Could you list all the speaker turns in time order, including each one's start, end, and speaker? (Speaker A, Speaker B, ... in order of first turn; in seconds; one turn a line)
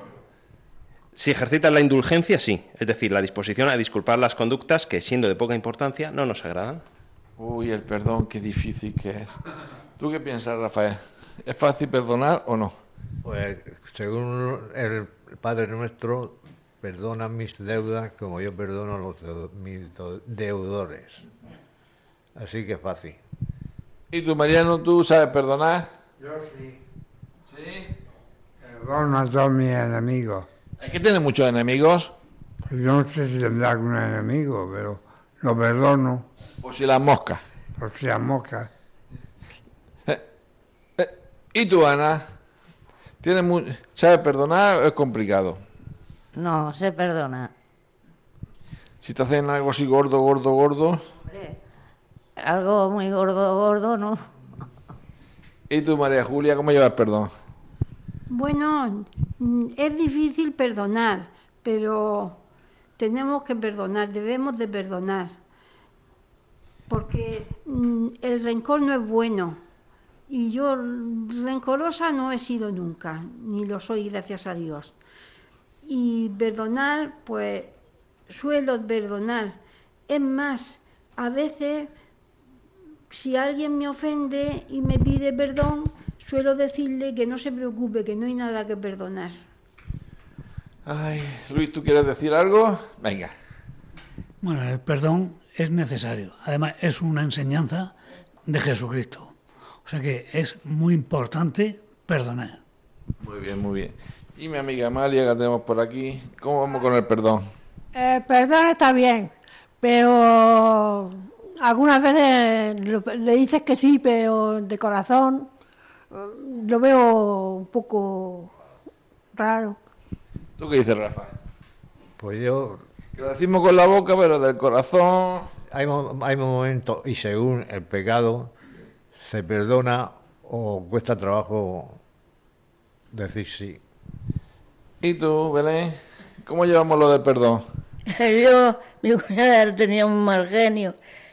Speaker A: 1.1-6.8
Speaker B: 7.4-9.4
Speaker B: 10.0-12.7
Speaker C: 13.2-21.2
Speaker C: 22.4-23.2
Speaker B: 24.1-25.9
Speaker D: 26.2-26.8
Speaker B: 27.5-27.9
Speaker D: 28.6-30.5
Speaker B: 30.8-32.1
Speaker D: 32.7-36.2
Speaker B: 36.6-37.4
Speaker D: 37.8-38.7
Speaker B: 41.0-42.2
Speaker B: 43.2-45.6
Speaker E: 46.3-47.5
Speaker B: 49.0-51.0
Speaker E: 51.3-51.5
Speaker E: 52.4-54.2
Speaker B: 55.7-57.3
Speaker F: 58.3-62.4
Speaker F: 63.0-65.3
Speaker F: 66.9-69.6
Speaker F: 70.3-75.0
Speaker F: 75.8-77.7
Speaker F: 78.3-79.6
Speaker F: 80.1-81.9
Speaker F: 83.1-89.3
Speaker B: 90.8-93.3
Speaker G: 94.4-97.9
Speaker G: 98.5-99.3
Speaker G: 99.8-102.6
Speaker B: 103.2-107.4
Speaker H: 107.9-109.3
Speaker H: 109.8-115.5
Speaker H: 116.1-118.5
Speaker H: 119.3-119.8
Speaker B: 120.6-121.3
Speaker C: 122.2-122.8
Speaker B: 123.2-125.5
Speaker C: 125.7-128.5
Speaker C: 129.2-132.0
Speaker C: 133.1-133.8
Speaker B: 135.0-137.6
Speaker I: 138.1-140.9